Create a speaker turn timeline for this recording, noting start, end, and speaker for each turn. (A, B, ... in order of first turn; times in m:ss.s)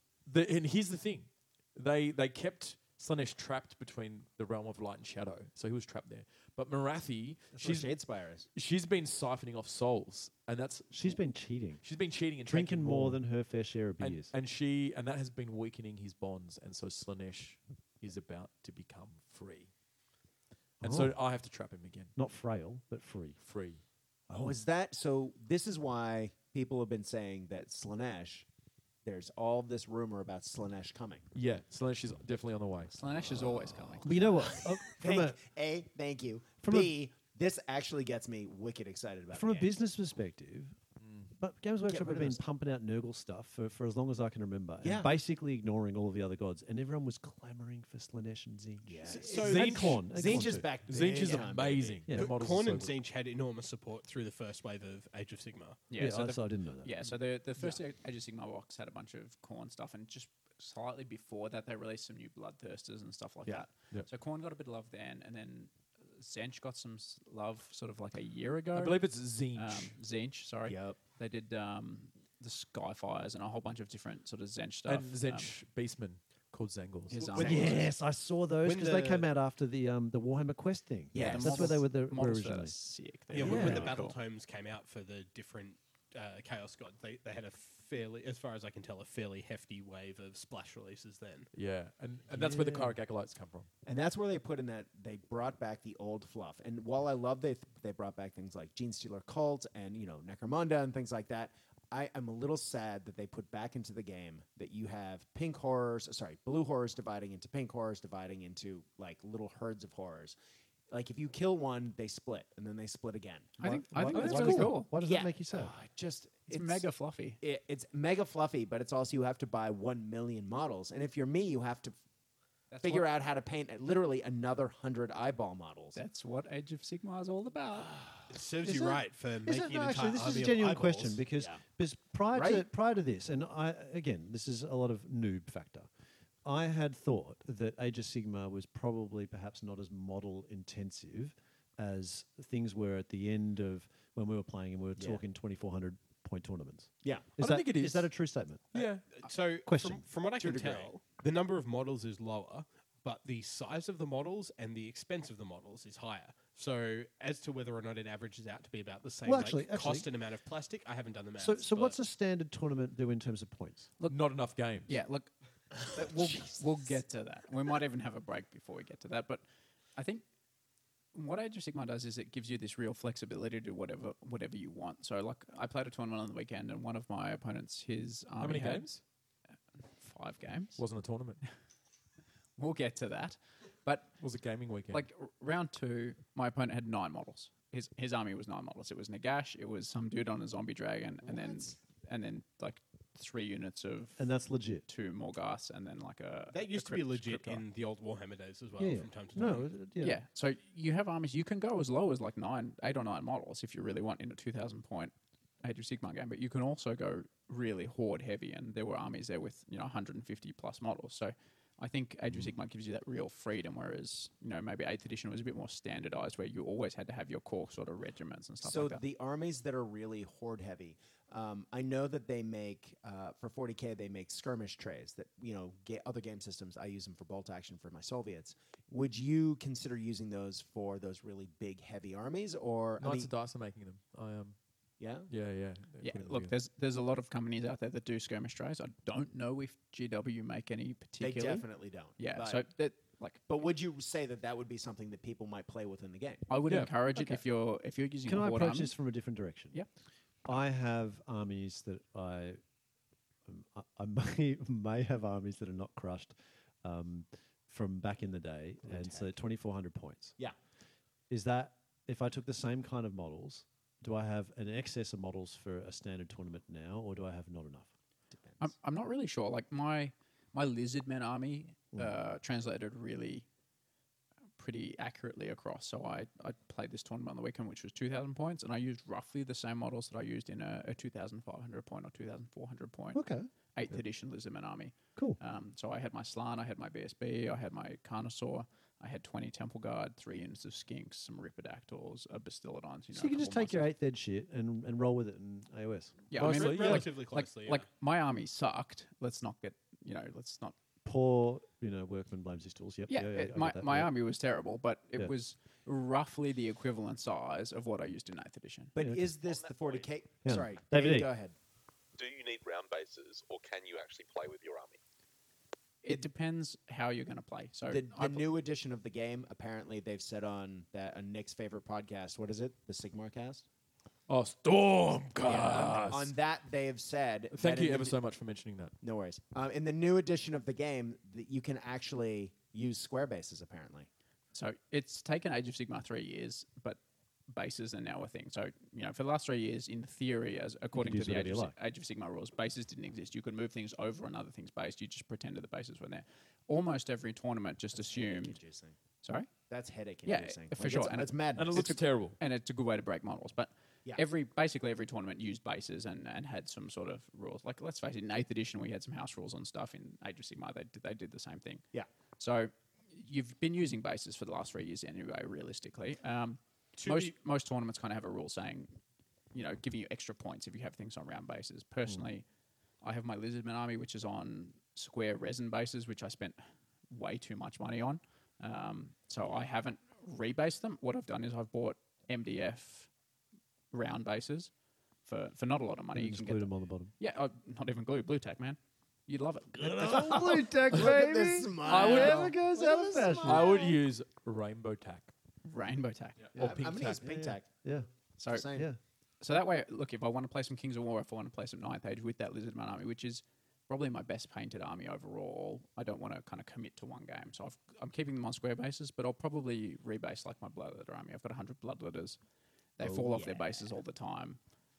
0:00.2-0:07.9 A
0:07.5-0:08.5 B
0:08.5-0:11.2 A
0:10.9-0:11.8 C
0:11.8-0:13.2 A
0:12.4-0:14.3 C
0:14.0-0:19.7 A
0:20.8-0:21.2 C
0:20.8-0:22.1 A
0:22.2-0:23.4 C
0:23.4-0:23.8 A
0:24.3-0:24.6 C
0:24.3-0:28.4 B
0:29.0-0:31.2 B
0:31.3-0:32.9 A
0:32.9-0:34.4 D
0:34.0-0:35.4 C
0:34.5-0:39.7 B
0:36.6-0:36.9 C
0:39.3-0:40.8 C
0:41.0-0:41.3 A
0:41.4-0:50.7 C
0:41.9-0:42.4 B
0:44.8-0:45.1 B
0:48.8-0:52.0 B
0:49.1-0:49.7 E
0:49.3-0:53.0 A
0:52.1-0:55.8 E
0:55.9-1:09.0 D
0:56.0-0:56.9 C
1:08.7-1:09.9 A
1:09.5-1:15.5 D
1:10.6-1:11.0 B
1:14.8-1:17.3 A
1:17.1-1:17.9 D
1:17.4-1:22.8 C
1:17.4-1:17.7 B
1:18.6-1:19.3 E
1:21.1-1:21.8 B
1:21.2-1:24.2 D
1:23.3-1:31.5 E
1:23.4-1:23.9 C
1:31.5-1:33.7 A
1:32.4-1:32.9 B
1:33.8-1:50.4 B
1:50.9-1:53.6 B
1:53.6-1:54.9 D
1:53.6-1:55.7 C
1:54.1-1:54.8 A
1:55.0-1:56.8 B
1:56.5-1:57.4 D
1:57.4-2:02.0 B
2:02.7-2:03.1 D
2:02.8-2:06.0 B
2:05.9-2:07.9 D
2:07.9-2:08.2 B
2:08.3-2:11.2 E
2:08.6-2:15.9 C
2:11.4-2:11.6 B
2:12.3-2:12.6 B
2:16.4-2:28.7 C
2:27.0-2:27.3 B
2:27.4-2:28.1 A
2:28.7-2:29.0 A
2:28.8-2:42.0 E
2:29.6-2:30.0 C
2:30.4-2:30.9 B
2:39.2-2:40.1 C
2:41.4-2:43.9 C
2:44.1-2:44.9 A
2:44.8-2:45.3 D
2:45.8-2:49.4 D
2:50.0-2:50.2 D
2:51.1-2:58.9 D
2:58.4-2:59.0 A
2:59.9-3:00.8 D
3:00.8-3:01.4 A
3:02.6-3:04.1 D
3:04.2-3:05.0 A
3:04.9-3:14.3 D
3:11.3-3:11.6 B
3:14.2-3:14.8 C
3:14.8-3:17.6 D
3:16.5-3:19.7 E
3:18.8-3:20.2 C
3:20.0-3:39.0 D
3:38.6-3:53.3 B
3:53.0-3:54.6 A
3:55.0-3:55.3 B
3:55.3-3:56.5 A
3:56.0-4:01.6 D
4:01.2-4:02.6 B
4:02.2-4:03.4 D
4:03.5-4:06.5 B
4:06.5-4:08.9 D
4:08.2-4:09.8 C
4:10.4-4:12.6 C
4:13.4-4:20.4 C
4:18.8-4:19.3 B
4:21.3-4:27.9 C
4:28.6-4:33.4 D
4:34.6-4:43.2 D
4:43.1-4:44.0 C
4:43.7-4:53.9 D
4:53.1-4:56.2 C
4:56.3-5:00.8 D
4:56.3-4:57.1 A
4:56.4-4:57.9 E
5:01.0-5:04.1 C
5:03.1-5:08.9 D
5:08.9-5:11.5 B
5:09.0-5:09.3 C
5:09.4-5:10.1 F
5:10.4-5:11.3 C
5:12.2-5:15.0 F
5:16.0-5:18.4 D
5:17.9-5:23.6 B
5:24.3-5:26.3 A
5:25.4-5:28.1 B
5:27.5-5:28.9 A
5:29.0-5:34.1 B
5:34.5-5:48.6 D
5:40.9-5:41.7 C
5:48.0-5:49.0 B
5:49.2-5:49.5 D
5:49.7-5:51.9 B
5:50.2-6:01.8 D
5:51.6-5:52.4 A
6:02.4-6:09.0 D
6:07.0-6:07.3 E
6:09.5-6:12.4 D
6:13.0-6:16.6 D
6:17.1-6:23.1 D
6:23.9-6:24.7 D
6:25.2-6:30.3 D
6:26.1-6:27.1 C
6:29.8-6:33.8 C
6:29.8-6:33.9 B
6:31.9-6:32.5 A
6:33.4-6:35.3 A
6:35.6-6:36.5 D
6:36.4-6:37.2 A
6:36.6-6:37.7 B
6:37.0-6:38.1 C
6:38.4-6:38.7 D
6:38.5-6:38.9 B
6:38.6-6:39.0 C
6:39.4-6:52.4 D
6:53.0-6:54.6 D
6:53.0-6:53.7 B